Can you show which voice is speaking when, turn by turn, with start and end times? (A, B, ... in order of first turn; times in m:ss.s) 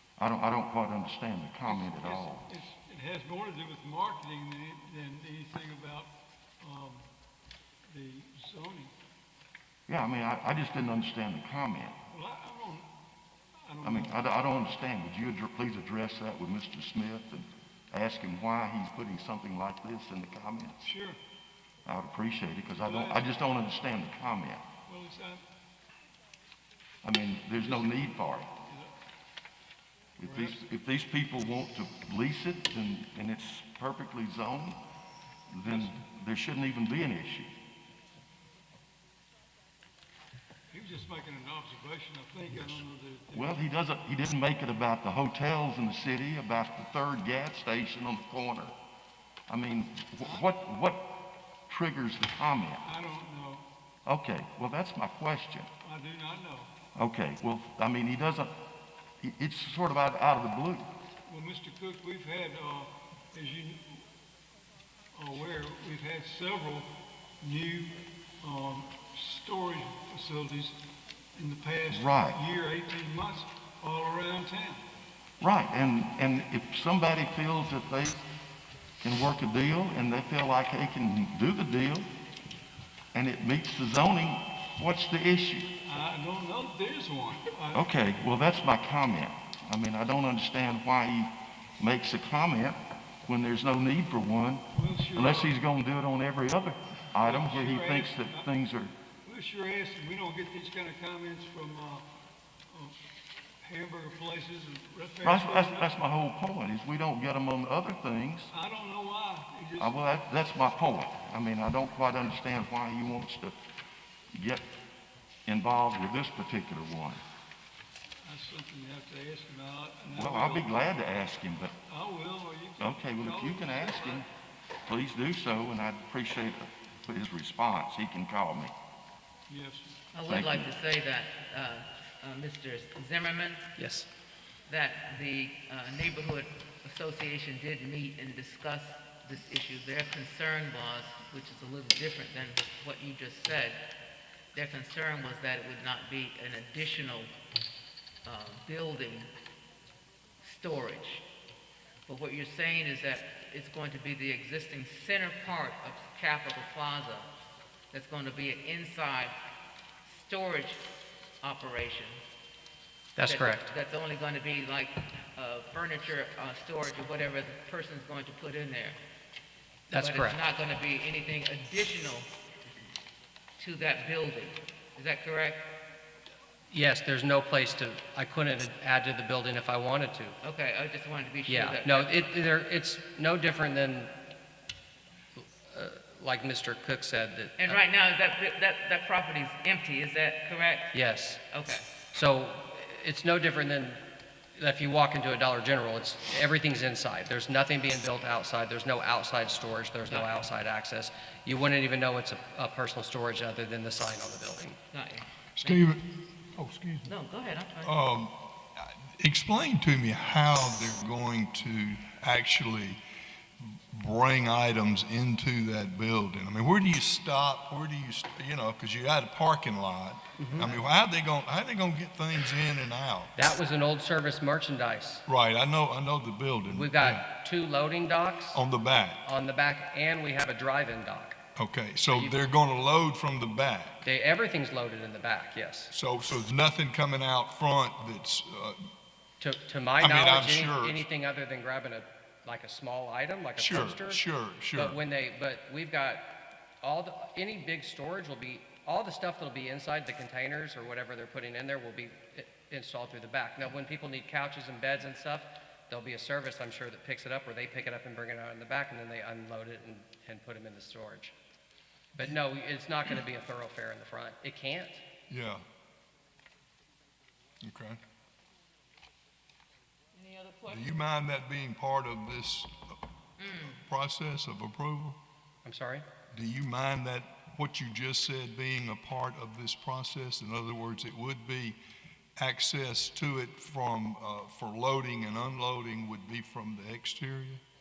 0:00.2-0:02.5 A
0:01.7-0:06.1 B
0:06.6-0:07.1 B
0:07.9-0:08.9 B
0:09.9-0:12.0 A
0:12.1-0:12.9 B
0:13.6-0:14.2 B
0:13.8-0:20.9 A
0:20.8-0:21.2 B
0:21.8-0:24.6 A
0:22.8-0:23.3 B
0:24.9-0:25.4 B
0:27.0-0:28.5 A
0:27.6-0:28.1 B
0:28.6-0:28.9 B
0:30.2-0:34.8 A
0:30.2-0:30.6 B
0:35.5-0:37.5 A
0:40.7-0:43.6 B
0:43.3-0:48.8 A
0:49.5-0:51.2 A
0:50.2-0:50.5 B
0:51.7-0:52.8 A
0:52.8-0:53.6 B
0:54.1-0:55.7 A
0:55.8-0:56.7 B
0:57.0-0:58.5 A
0:59.2-1:00.9 A
1:01.3-1:04.0 B
1:05.1-1:06.9 B
1:07.4-1:10.8 B
1:11.4-1:14.8 B
1:11.9-1:12.4 A
1:15.4-1:18.3 A
1:19.0-1:22.1 A
1:23.1-1:25.7 A
1:25.8-1:27.9 B
1:27.7-1:38.9 A
1:34.7-1:35.6 B
1:37.2-1:38.5 B
1:39.2-1:42.1 B
1:42.7-1:43.0 B
1:43.6-1:45.9 B
1:45.2-1:48.5 A
1:48.5-1:50.2 B
1:49.8-1:53.6 A
1:54.3-1:54.6 A
1:55.5-1:57.2 A
1:58.2-2:01.1 B
2:00.1-2:01.7 A
2:01.9-2:04.3 B
2:02.8-2:04.3 A
2:04.9-2:08.7 A
2:09.5-2:10.0 B
2:10.1-2:13.7 C
2:10.2-2:10.8 A
2:13.8-2:14.1 D
2:14.7-2:23.8 C
2:24.5-2:27.3 C
2:28.2-2:29.3 C
2:30.4-2:31.2 C
2:32.1-2:37.3 C
2:37.9-2:39.4 C
2:40.0-2:40.8 C
2:41.4-2:42.2 C
2:43.2-2:43.7 D
2:43.2-2:49.0 C
2:49.9-2:50.4 D
2:50.0-2:52.3 C
2:53.6-2:55.7 C
2:56.7-3:00.4 D
3:00.4-3:02.2 C
3:01.5-3:04.1 D
3:05.4-3:07.8 D
3:07.6-3:10.9 C
3:10.9-3:11.4 D
3:11.5-3:11.9 C
3:12.1-3:14.0 D
3:14.6-3:24.8 D
3:20.1-3:20.3 C
3:24.9-3:25.3 C
3:25.6-3:26.0 E
3:25.6-3:25.9 D
3:26.6-3:27.1 E
3:27.0-3:27.9 C
3:27.8-3:33.0 E
3:33.6-3:43.3 E
3:40.4-3:40.8 D
3:43.4-3:45.2 D
3:45.3-3:47.2 E
3:46.7-3:48.6 D
3:48.5-3:49.2 E
3:49.2-3:51.4 D
3:51.6-3:54.1 E
3:52.1-3:52.4 D
3:54.0-3:55.9 D
3:55.9-3:58.8 E
3:59.4-4:21.3 D
4:00.0-4:01.0 E
4:03.6-4:05.0 E
4:22.2-4:25.0 D
4:25.3-4:25.6 E
4:27.6-4:28.0 E
4:30.1-4:30.9 C
4:30.7-4:32.7 E
4:33.4-4:33.7 C
4:33.5-4:35.2 E
4:35.6-4:36.1 D
4:36.3-4:41.8 E
4:42.4-4:47.6 E